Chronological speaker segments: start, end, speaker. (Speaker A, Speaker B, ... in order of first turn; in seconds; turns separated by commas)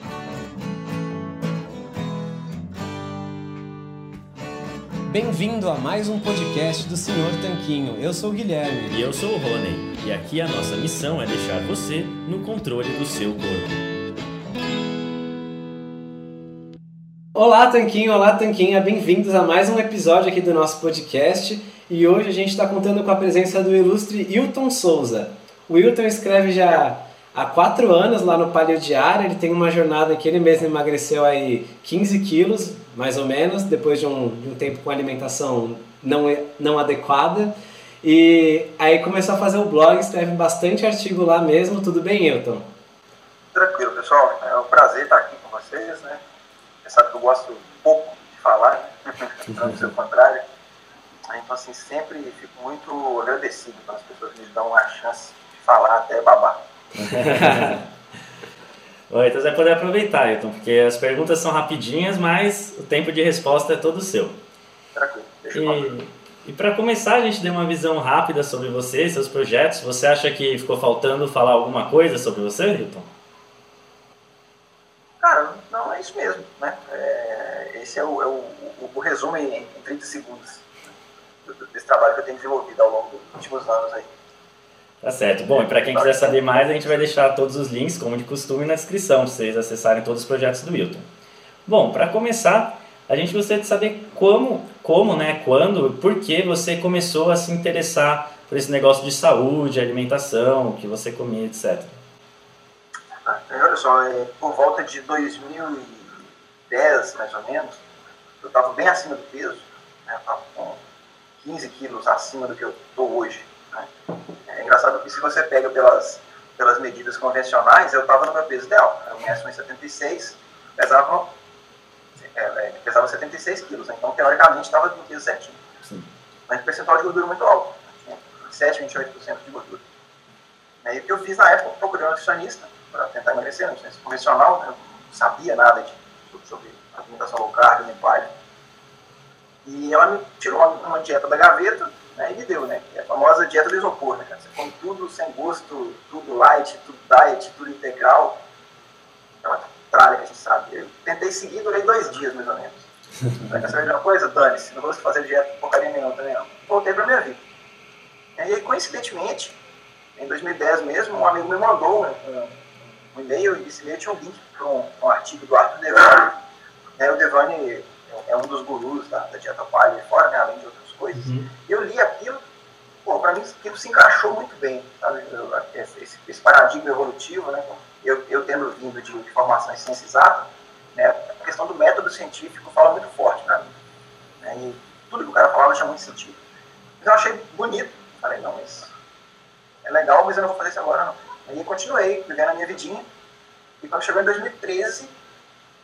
Speaker A: 5.1-9.0, Speaker B: 8.9-13.8, Speaker A: 17.3-37.5, Speaker A: 38.0-42.7, Speaker C: 43.5-46.2, Speaker C: 46.8-50.4, Speaker C: 51.3-56.6, Speaker B: 56.9-57.8, Speaker A: 57.3-57.7, Speaker B: 59.1-64.4, Speaker C: 64.9-65.9, Speaker B: 65.5-73.1, Speaker C: 75.2-80.7, Speaker C: 81.4-84.1, Speaker B: 85.0-91.0, Speaker C: 85.5-86.6, Speaker B: 91.7-101.9, Speaker C: 103.2-107.8, Speaker C: 108.4-110.8, Speaker C: 111.4-113.9, Speaker C: 114.5-121.3, Speaker C: 122.2-125.6, Speaker C: 126.5-129.8, Speaker C: 130.8-138.3, Speaker C: 139.6-148.4, Speaker C: 149.4-152.9, Speaker C: 153.4-157.4, Speaker C: 158.3-159.6, Speaker C: 160.2-162.5, Speaker C: 163.1-166.4, Speaker C: 167.0-172.4, Speaker A: 171.1-171.5, Speaker C: 173.0-183.7, Speaker C: 184.4-186.4, Speaker C: 187.0-188.9, Speaker C: 189.8-193.0, Speaker C: 193.8-195.1